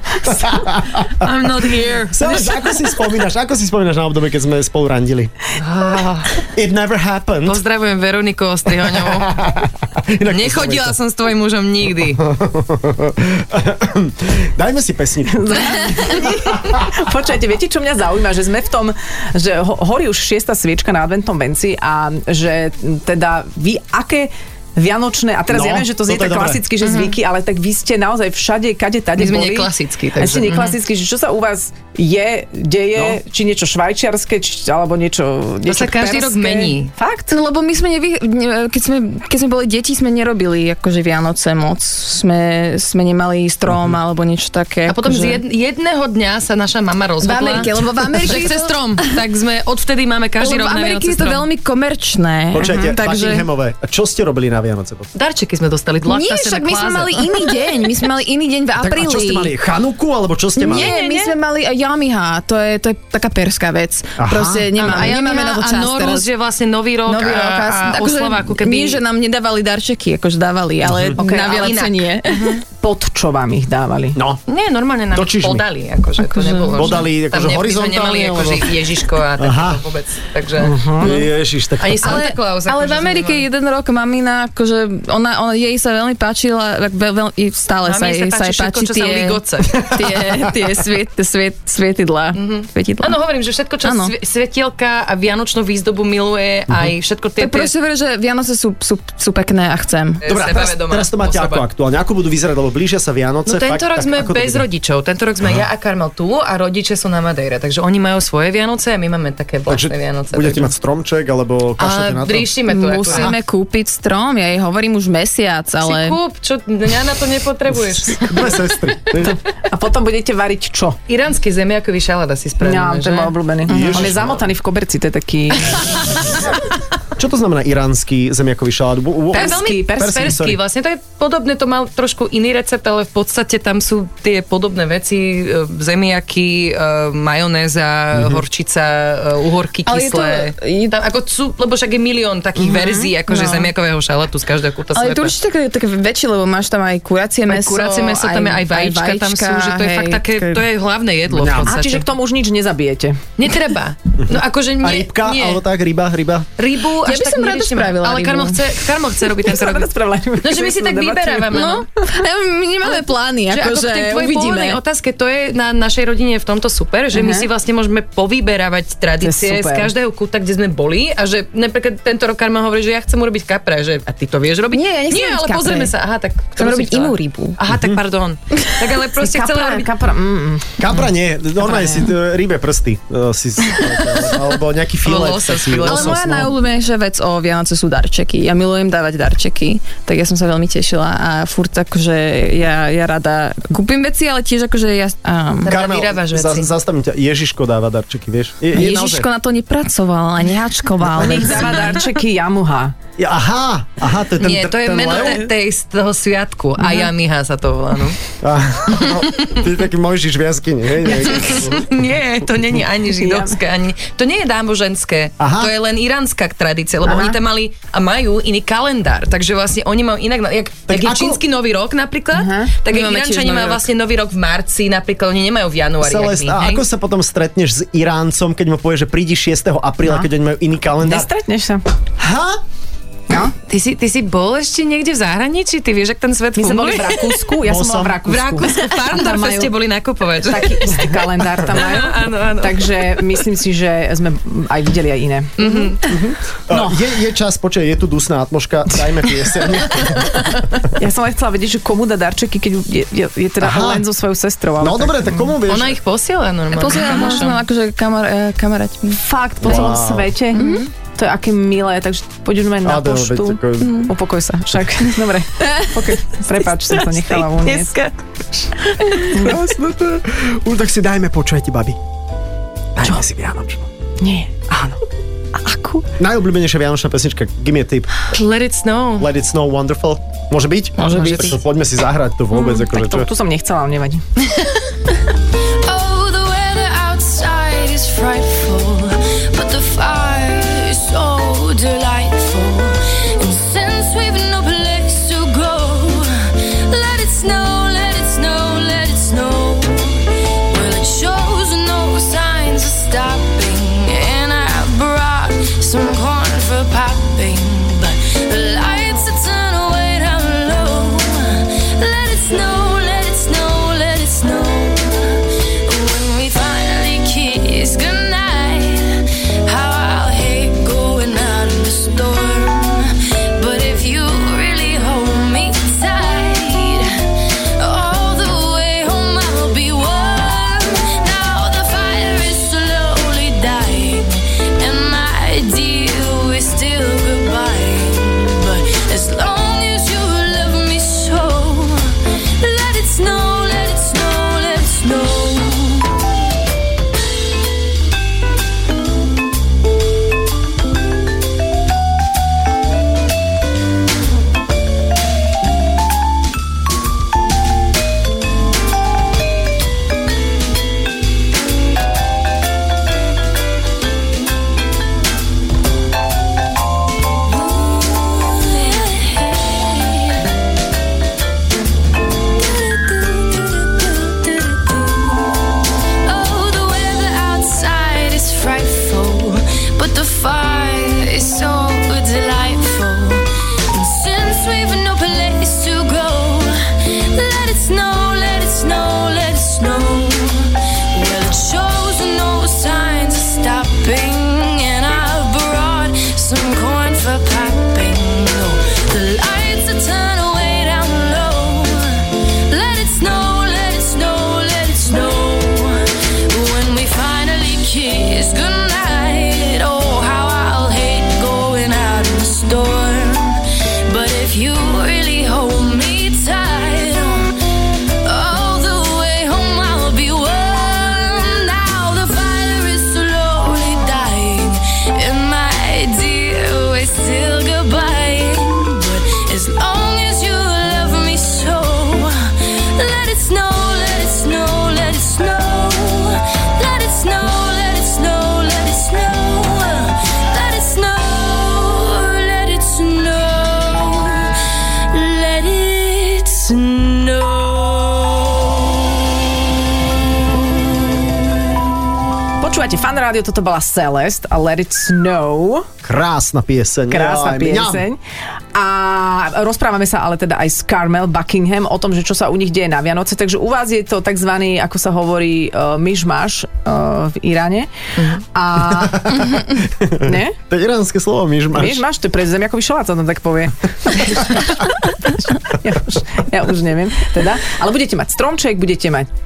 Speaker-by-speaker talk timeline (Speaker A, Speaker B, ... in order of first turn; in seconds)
Speaker A: 0.2-1.3, 2.1-5.3, 6.5-7.6, 8.7-11.0, 12.2-16.9, 25.5-26.7, 32.9-33.2, 43.7-44.0, 52.5-55.1, 58.8-60.9, 64.2-64.7, 70.8-71.2, 74.2-74.4, 75.1-75.7, 76.7-78.8, 79.4-79.8, 81.0-82.2, 89.7-90.5, 100.3-104.6, 109.7-112.5, 113.1-113.3, 118.0-119.4, 123.7-124.4, 127.2-130.6, 138.1-138.4, 151.3-151.8, 154.2-156.5, 177.7-178.0, 180.8-186.5, 195.7-199.3, 201.0-201.7, 203.2-205.5, 208.4-211.9, 215.4-215.7, 220.9-221.4, 226.0-231.3, 232.2-232.6, 237.6-238.3, 246.1-250.7, 253.6-254.1, 254.8-256.0, 259.6-260.4, 262.8-264.1, 269.5-272.0, 273.0-273.9, 276.2-278.1, 279.2-283.3, 456.0-458.1, 468.8-472.0
Speaker B: 1.2-2.6, 5.6-6.3, 7.5-9.3, 10.3-12.2, 29.2-30.8, 35.6-36.9, 44.9-51.5, 55.1-57.5, 60.7-61.3, 64.8-69.0, 71.4-72.6, 74.5-81.3, 81.8-83.5, 87.8-89.8, 92.4-97.7, 100.2-101.7, 103.5-110.7, 111.8-113.4, 115.8-118.6, 121.1-123.3, 129.3-145.3, 147.5-152.1, 153.4-155.6, 156.6-161.9, 163.5-179.9, 185.0-186.4, 195.6-196.7, 204.4-208.2, 208.9-209.7, 211.1-226.8, 233.7-237.5, 238.2-243.4, 245.6-246.0, 255.7-257.6, 266.9-269.4, 278.2-279.3, 281.0-281.5, 468.2-468.4
Speaker C: 15.3-37.3, 71.2-71.8, 72.7-74.2, 80.6-81.2, 119.2-121.0, 122.6-126.1, 129.3-130.3, 142.6-143.1, 151.6-153.2, 159.4-161.6, 167.1-167.5, 169.2-169.9, 179.2-180.9, 181.6-182.1, 201.2-203.0, 213.1-213.6, 217.0-217.4, 222.3-222.7, 230.1-230.3, 231.0-231.8, 236.6-239.7, 240.4-246.2, 246.7-247.0, 250.9-255.6, 259.2-267.9, 269.3-269.8, 274.2-275.0, 275.6-276.0, 281.1-281.6, 282.6-284.2, 452.6-455.9, 457.1-458.2, 458.7-467.9, 468.5-469.7, 470.2-470.6, 471.8-479.3
Speaker D: 37.3-45.4, 47.2-49.2, 50.4-53.5, 56.1-59.5, 60.6-66.3, 67.1-72.6, 76.2-77.0, 82.0-93.2, 93.8-94.1, 97.4-100.2, 112.7-116.2, 139.9-141.0, 143.3-143.7, 144.9-150.6, 157.0-158.6, 161.5-164.8, 174.7-175.9, 176.6-177.6, 185.8-195.8, 198.7-201.9, 222.9-223.8, 256.7-259.8, 260.5-260.9, 263.8-264.1, 265.6-265.9
Speaker E: 285.8-346.2, 367.5-370.5, 372.5-375.6, 376.2-417.5, 418.2-449.0